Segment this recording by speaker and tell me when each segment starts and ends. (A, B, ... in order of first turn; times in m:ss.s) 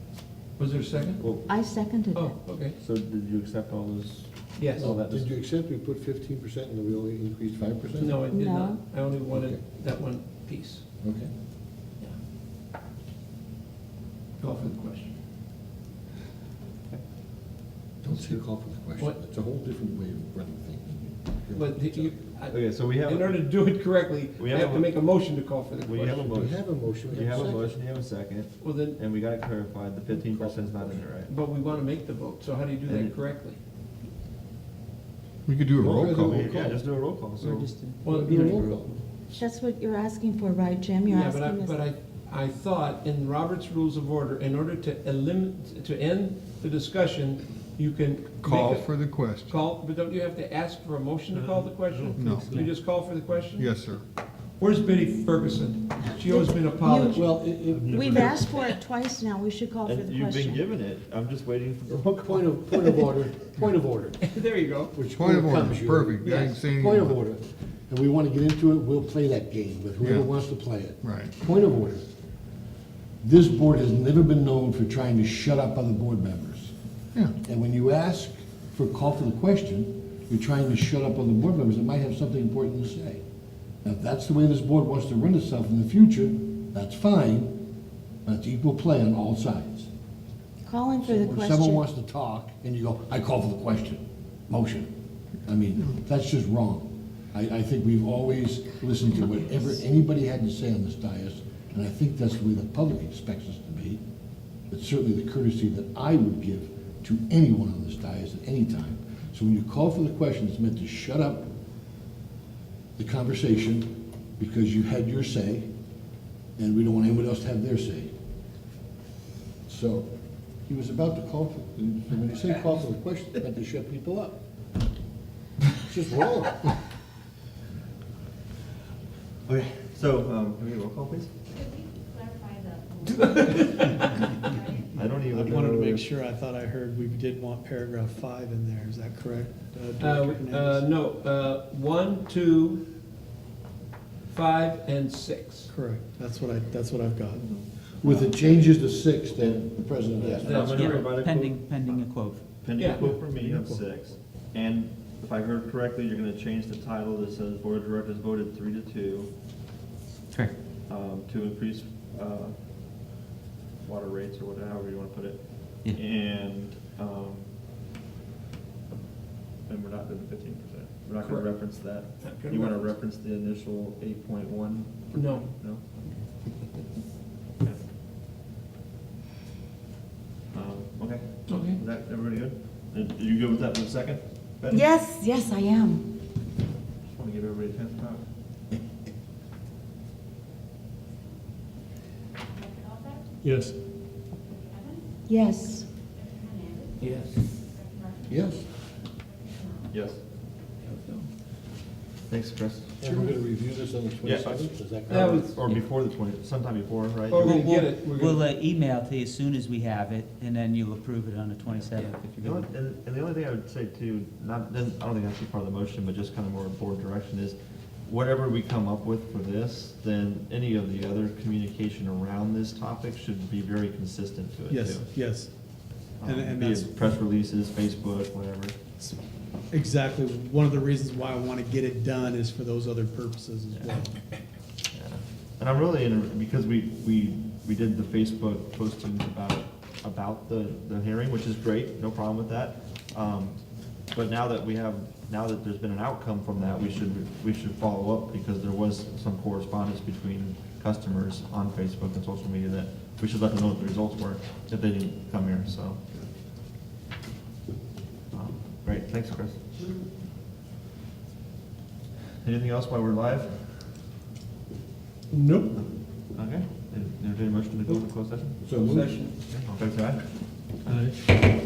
0:00.6-0:01.3 A
0:01.2-0:01.5 B
0:01.5-0:02.4 C
0:02.1-0:02.8 A
0:02.6-0:05.3 B
0:04.6-0:04.9 A
0:04.8-0:08.2 D
0:08.0-0:10.8 A
0:08.3-0:08.8 C
0:09.3-0:09.6 D
0:11.0-0:11.3 D
0:14.4-0:15.1 A
0:18.0-0:22.2 D
0:18.1-0:18.4 A
0:21.5-0:26.3 A
0:22.5-0:23.5 B
0:24.4-0:25.0 B
0:25.8-0:31.3 B
0:26.3-0:27.8 D
0:27.1-0:27.5 A
0:28.6-0:29.0 A
0:30.1-0:31.0 D
0:31.3-0:33.6 A
0:32.9-0:33.2 B
0:35.4-0:36.4 E
0:35.8-0:36.8 D
0:36.2-0:37.7 B
0:37.4-0:38.0 F
0:38.0-0:38.9 D
0:38.0-0:39.4 A
0:39.4-0:41.8 C
0:41.1-0:53.7 A
0:48.4-0:49.6 E
0:52.1-0:52.7 E
0:53.6-0:54.0 E
0:54.6-0:57.3 A
0:56.3-0:57.2 C
0:57.1-0:58.5 D
0:57.9-1:00.7 C
0:58.0-0:58.6 A
0:59.8-1:02.1 B
1:01.9-1:04.2 D
1:04.2-1:04.9 A
1:04.9-1:12.0 D
1:05.1-1:07.2 E
1:10.0-1:10.3 E
1:11.0-1:11.3 E
1:13.2-1:16.7 D
1:17.4-1:23.2 D
1:23.8-1:27.6 D
1:28.2-1:29.9 D
1:30.6-1:31.8 C
1:31.0-1:34.9 D
1:35.4-1:44.0 D
1:44.7-1:51.5 D
1:53.0-1:55.7 D
1:56.6-1:58.1 D
1:59.6-2:00.1 D
2:00.7-2:04.4 D
2:05.8-2:06.8 D
2:09.4-2:11.4 B
2:13.0-2:14.2 A
2:14.9-2:16.0 B
2:15.0-2:20.9 G
2:20.0-2:22.8 A
2:24.3-2:25.7 A
2:25.7-2:27.4 G
2:27.3-2:32.0 B
2:28.0-2:30.7 D
2:30.4-2:31.3 A
2:30.6-2:32.4 F
2:32.6-2:39.3 B
2:32.8-2:33.0 A
2:32.8-2:33.9 G
2:40.9-2:42.5 B
2:43.8-2:47.5 B
2:49.7-2:55.8 B
2:51.2-2:52.9 A
2:55.1-2:56.8 A
3:00.5-3:04.9 B
3:01.5-3:01.8 A
3:04.7-3:06.0 C
3:07.0-3:08.2 B
3:13.4-3:13.7 G
3:15.3-3:15.9 C
3:17.0-3:17.4 A
3:18.3-3:18.7 D
3:19.9-3:20.2 B
3:20.8-3:21.3 A
3:22.3-3:23.0 B
3:23.0-3:25.5 D
3:24.2-3:27.6 B
3:25.1-3:25.6 A
3:25.6-3:25.9 F
3:27.3-3:28.4 A
3:27.4-3:32.7 F
3:32.4-3:45.1 B
3:44.7-3:47.0 G
3:46.2-3:48.7 B
3:49.7-3:54.2 G
3:53.7-3:54.0 B
3:54.9-4:16.2 B
4:18.3-4:19.6 B
4:22.4-4:23.5 B
4:25.3-4:25.8 A
4:25.7-4:28.6 B
4:28.6-4:29.3 D
4:28.6-4:29.4 A
4:29.7-4:30.2 B